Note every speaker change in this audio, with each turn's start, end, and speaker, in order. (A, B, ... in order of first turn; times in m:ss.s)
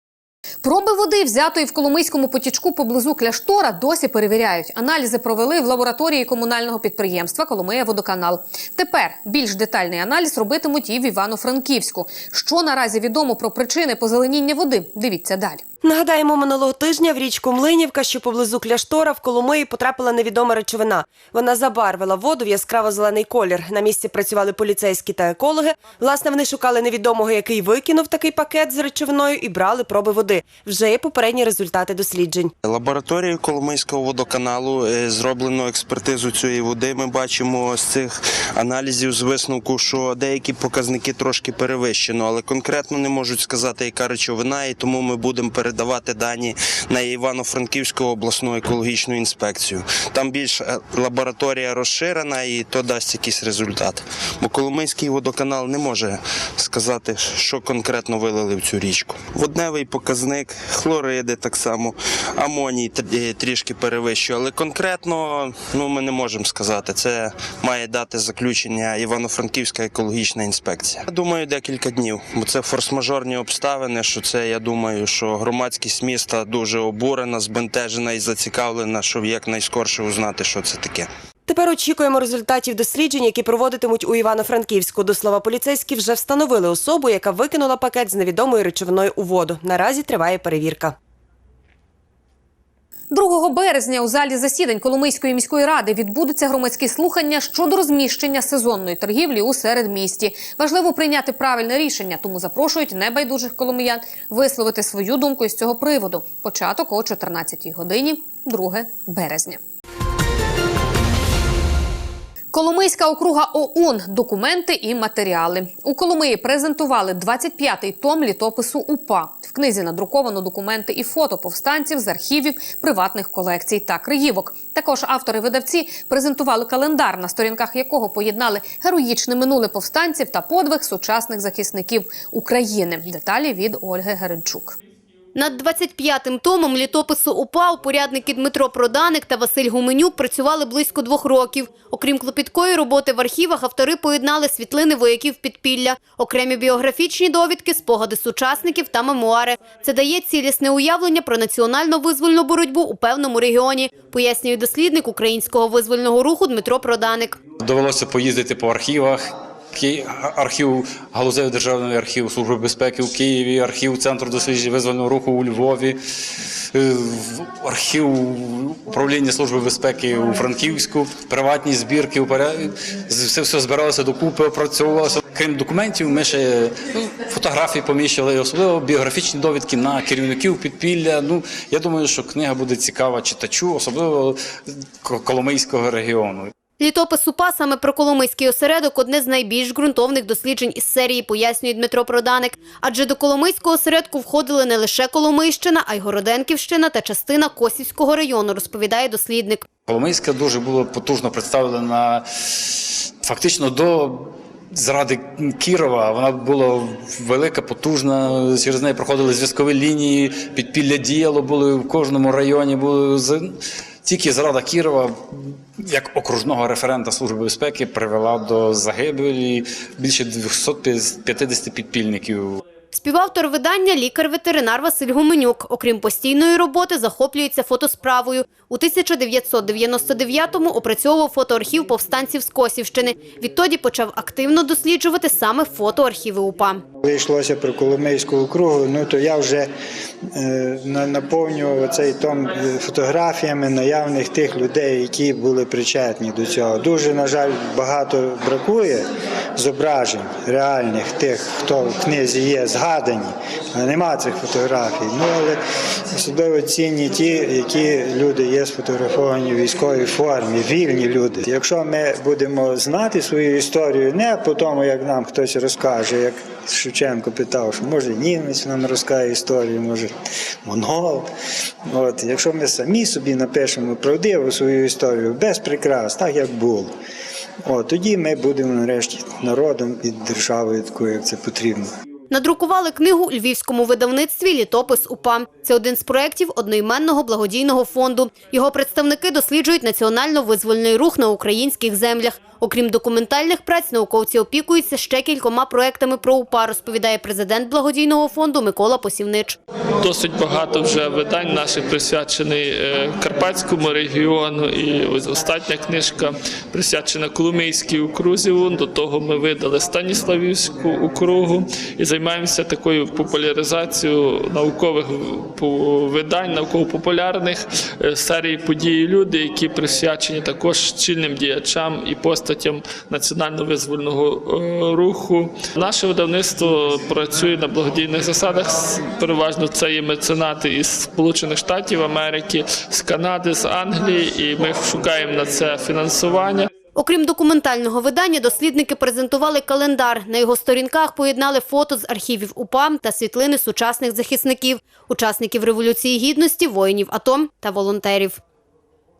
0:00.6-0:15.6 A
0:15.8-0:32.5 B
0:32.6-1:21.1 C
1:21.5-1:30.9 B
1:33.1-1:49.6 A
1:52.5-2:14.8 A
2:15.4-2:37.4 D
2:37.6-2:46.0 E
2:46.7-3:06.5 E
3:06.8-3:19.6 D
3:19.9-3:33.5 E
3:34.0-3:42.6 E
3:42.9-3:56.8 D
3:57.0-3:59.7 F
4:00.3-4:15.6 F
4:16.1-4:30.1 F
4:30.6-4:31.3 F
4:31.9-4:36.9 F
4:37.6-4:41.9 F
4:42.3-4:59.6 D
5:00.0-5:36.7 G
5:37.0-5:48.4 D